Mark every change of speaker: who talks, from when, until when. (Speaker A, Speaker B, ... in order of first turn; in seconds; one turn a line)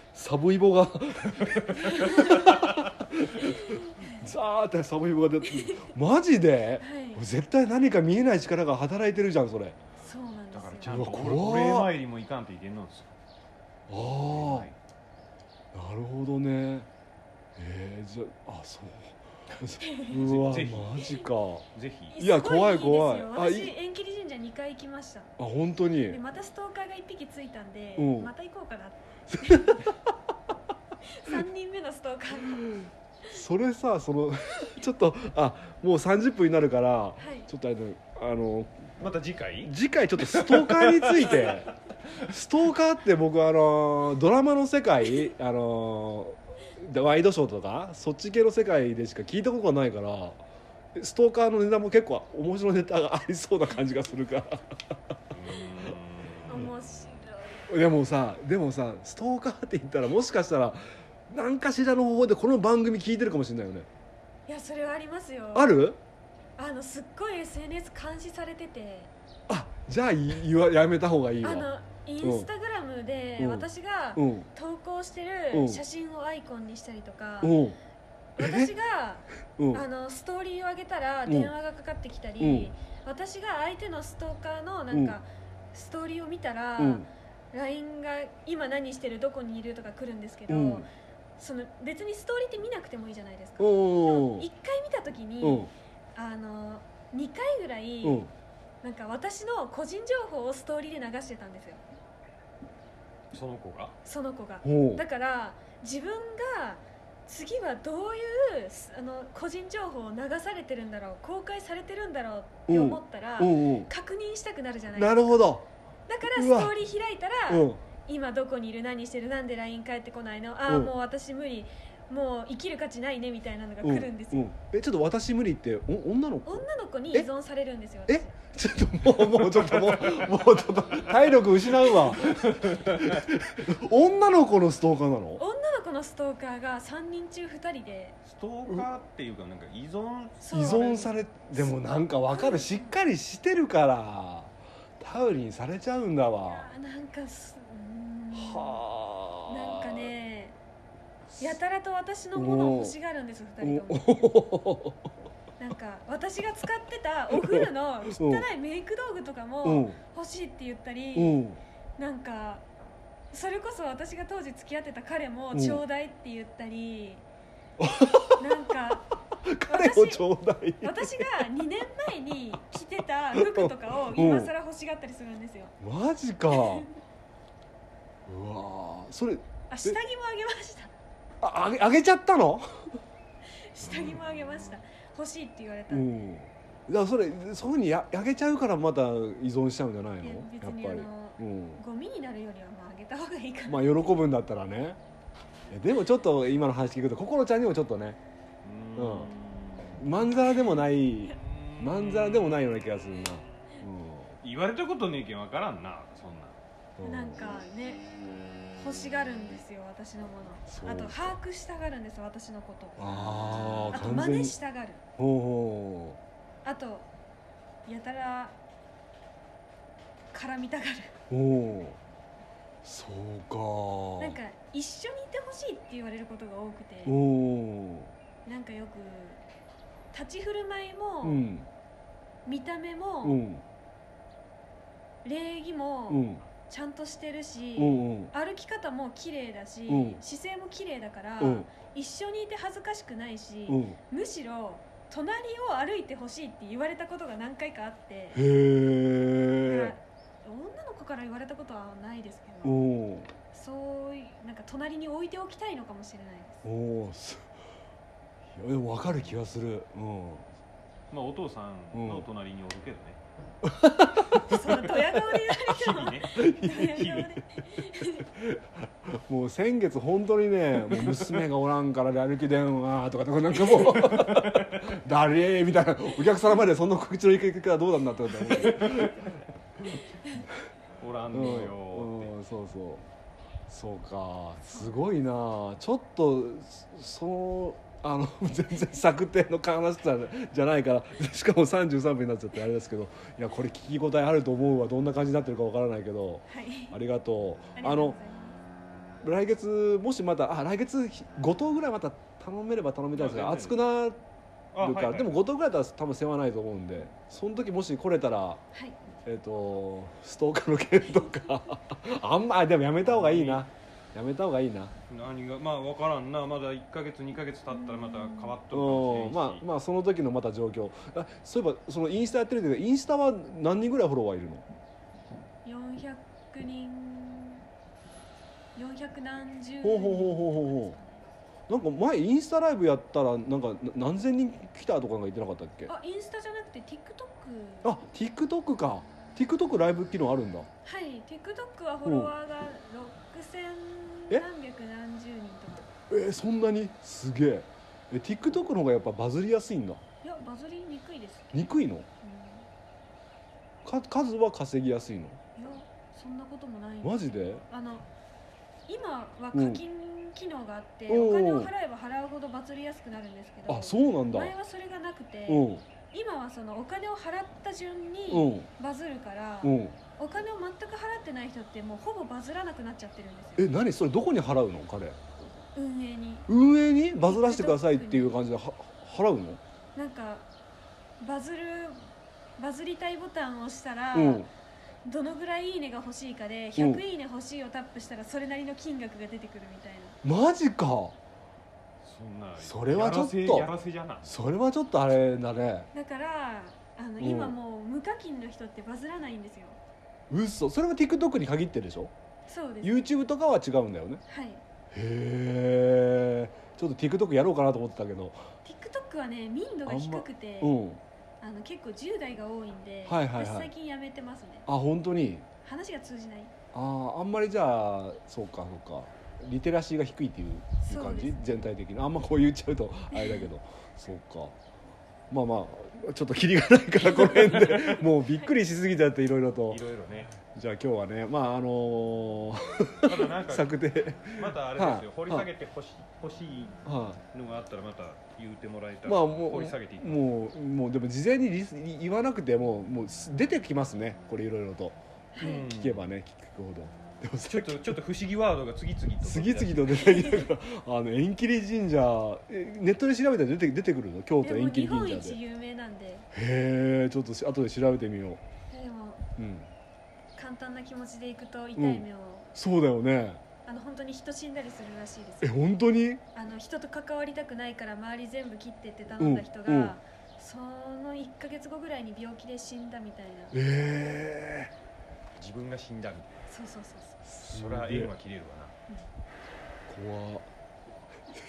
Speaker A: 0.1-9.8
Speaker B: 1.3-2.9
Speaker C: 1.8-2.6
Speaker C: 3.4-4.2
Speaker C: 5.5-5.8
Speaker C: 6.8-7.2
Speaker C: 10.0-11.1
Speaker B: 10.5-13.1
Speaker A: 10.9-11.9
Speaker A: 13.9-14.7
Speaker B: 14.2-14.8
Speaker A: 15.7-16.9
Speaker A: 17.6-21.6
Speaker C: 19.8-20.1
Speaker B: 20.1-21.1
Speaker B: 21.7-22.1
Speaker C: 22.1-25.3
Speaker A: 22.2-23.7
Speaker A: 25.4-26.2
Speaker C: 26.1-29.9
Speaker A: 28.0-28.3
Speaker A: 29.3-30.0
Speaker C: 31.0-32.6
Speaker A: 32.5-38.7
Speaker C: 37.2-37.5
Speaker B: 39.0-42.2
Speaker A: 39.6-50.4
Speaker A: 50.9-55.4
Speaker B: 55.3-56.9
Speaker C: 56.5-57.8
Speaker A: 57.7-63.9
Speaker C: 64.5-65.8
Speaker A: 65.5-66.0
Speaker C: 66.6-69.1
Speaker A: 69.5-71.7
Speaker C: 71.4-77.6
Speaker A: 72.2-72.5
Speaker A: 73.4-74.5
Speaker A: 75.5-75.8
Speaker A: 77.4-77.8
Speaker C: 78.3-90.9
Speaker A: 78.4-78.7
Speaker A: 79.6-79.8
Speaker A: 81.2-81.5
Speaker A: 82.4-82.7
Speaker A: 84.9-85.2
Speaker A: 86.8-87.1
Speaker A: 90.5-90.9
Speaker C: 91.4-98.2
Speaker A: 93.6-94.5
Speaker A: 95.4-95.7
Speaker A: 98.0-98.3
Speaker C: 98.8-101.8
Speaker B: 103.3-103.9
Speaker C: 104.0-115.4
Speaker A: 104.6-105.0
Speaker A: 112.7-113.9
Speaker A: 115.0-115.7
Speaker C: 116.1-124.5
Speaker A: 116.3-116.7
Speaker A: 117.5-117.8
Speaker A: 120.7-120.9
Speaker A: 123.8-126.6
Speaker C: 126.5-128.3
Speaker A: 128.1-135.4
Speaker B: 129.7-130.3
Speaker B: 131.8-133.2
Speaker C: 135.4-138.2
Speaker B: 138.2-140.4
Speaker C: 140.4-141.8
Speaker A: 140.5-146.7
Speaker C: 142.3-142.9
Speaker C: 146.4-148.8
Speaker A: 148.3-150.1
Speaker C: 149.4-150.6
Speaker C: 151.4-154.3
Speaker A: 152.3-152.9
Speaker A: 153.6-155.0
Speaker C: 155.6-161.4
Speaker A: 157.3-158.5
Speaker A: 159.6-160.0
Speaker A: 161.1-161.6
Speaker C: 162.0-162.7
Speaker C: 163.3-167.2
Speaker A: 165.5-165.8
Speaker A: 167.8-171.5
Speaker C: 168.4-169.1
Speaker C: 169.7-170.2
Speaker C: 170.8-175.7
Speaker A: 173.3-174.5
Speaker A: 175.8-176.8
Speaker C: 176.5-176.9
Speaker A: 178.2-180.0
Speaker C: 179.7-180.9
Speaker A: 181.4-182.8
Speaker C: 183.7-186.2
Speaker A: 185.9-191.8
Speaker C: 190.2-193.9
Speaker A: 193.7-195.0
Speaker A: 195.7-198.2
Speaker B: 198.6-200.0
Speaker A: 198.9-199.3
Speaker A: 200.0-204.3
Speaker B: 201.3-203.8
Speaker B: 204.4-206.6
Speaker A: 207.0-207.5
Speaker C: 207.0-208.1
Speaker C: 208.7-215.0
Speaker A: 210.7-211.4
Speaker A: 213.0-214.5
Speaker A: 215.2-216.2
Speaker C: 216.6-217.1
Speaker C: 217.8-218.6
Speaker C: 220.3-221.1
Speaker A: 221.3-222.0
Speaker A: 222.8-224.4
Speaker C: 224.2-227.2
Speaker A: 227.1-228.1
Speaker C: 228.4-229.4
Speaker C: 230.1-231.4
Speaker A: 231.2-231.7
Speaker C: 232.4-233.4
Speaker A: 233.2-233.6
Speaker C: 235.2-248.4
Speaker A: 236.1-236.4
Speaker A: 237.8-238.3
Speaker A: 239.9-240.2
Speaker A: 241.4-241.7
Speaker A: 243.7-244.0
Speaker A: 248.3-249.9
Speaker C: 249.6-252.8
Speaker A: 252.6-253.3
Speaker C: 253.5-256.7
Speaker A: 256.6-257.4
Speaker A: 258.5-260.5
Speaker B: 261.1-263.2
Speaker A: 261.9-262.3
Speaker A: 263.6-264.6
Speaker C: 264.3-268.3
Speaker B: 264.6-267.2
Speaker A: 266.3-267.3
Speaker A: 268.0-279.2
Speaker B: 270.9-271.2
Speaker B: 273.6-274.9
Speaker B: 278.5-279.3
Speaker C: 280.0-280.4
Speaker B: 281.0-282.3
Speaker A: 281.3-283.0
Speaker A: 283.7-298.2
Speaker C: 284.7-284.9
Speaker C: 296.5-296.9
Speaker C: 297.8-298.6
Speaker A: 299.2-304.2
Speaker B: 303.1-303.8
Speaker B: 304.7-305.4
Speaker A: 304.8-308.6
Speaker A: 309.2-314.9
Speaker B: 313.0-313.6
Speaker B: 315.1-319.6
Speaker C: 317.7-318.6
Speaker A: 318.7-324.6
Speaker C: 325.6-327.6
Speaker C: 328.8-331.2
Speaker A: 329.8-330.9
Speaker A: 331.7-335.9
Speaker C: 335.9-337.9
Speaker A: 337.8-340.7
Speaker C: 340.8-345.9
Speaker A: 342.0-342.3
Speaker A: 346.1-350.0
Speaker C: 350.2-352.6
Speaker A: 351.5-352.1
Speaker A: 353.8-355.4
Speaker C: 355.6-358.1
Speaker A: 357.0-357.6
Speaker C: 358.9-373.7
Speaker A: 359.5-359.8
Speaker A: 361.1-361.7
Speaker A: 363.7-364.5
Speaker A: 365.5-365.8
Speaker A: 368.3-368.7
Speaker A: 369.6-369.9
Speaker A: 373.6-375.2
Speaker C: 375.7-376.5
Speaker A: 376.5-379.6
Speaker C: 377.2-378.3
Speaker C: 379.9-380.5
Speaker C: 381.2-382.0
Speaker C: 382.6-384.5
Speaker A: 384.1-384.5
Speaker C: 385.0-390.2
Speaker A: 386.8-387.0
Speaker A: 390.2-391.1
Speaker B: 392.0-394.3
Speaker A: 392.6-393.7
Speaker A: 394.2-395.9
Speaker C: 395.9-399.8
Speaker A: 397.2-397.6
Speaker A: 400.3-402.1
Speaker C: 402.5-403.1
Speaker A: 402.8-404.2
Speaker C: 404.3-404.6
Speaker A: 404.9-408.4
Speaker C: 408.6-410.8
Speaker A: 409.9-411.0
Speaker C: 411.4-414.7
Speaker A: 413.1-413.7
Speaker A: 414.7-415.4
Speaker C: 415.6-416.5
Speaker A: 416.7-424.6
Speaker C: 420.8-421.4
Speaker C: 423.1-423.5
Speaker A: 425.3-429.8
Speaker C: 427.0-428.5
Speaker B: 427.6-427.9
Speaker B: 429.7-430.4
Speaker A: 430.5-435.5
Speaker B: 433.0-440.2
Speaker A: 436.9-437.2
Speaker A: 439.1-448.0
Speaker C: 445.3-445.7
Speaker B: 445.4-446.1
Speaker B: 447.5-450.1
Speaker A: 449.2-455.4
Speaker C: 449.9-450.5
Speaker C: 454.4-456.3
Speaker A: 456.3-458.4
Speaker C: 458.7-459.2
Speaker A: 459.4-459.7
Speaker C: 460.4-462.5
Speaker A: 461.8-463.4
Speaker C: 463.6-465.6
Speaker A: 465.4-466.2
Speaker C: 466.3-473.6
Speaker A: 469.2-469.9
Speaker A: 473.5-474.7
Speaker B: 475.4-476.4
Speaker C: 476.5-477.2
Speaker A: 477.2-478.1
Speaker B: 477.4-478.7
Speaker A: 479.9-480.4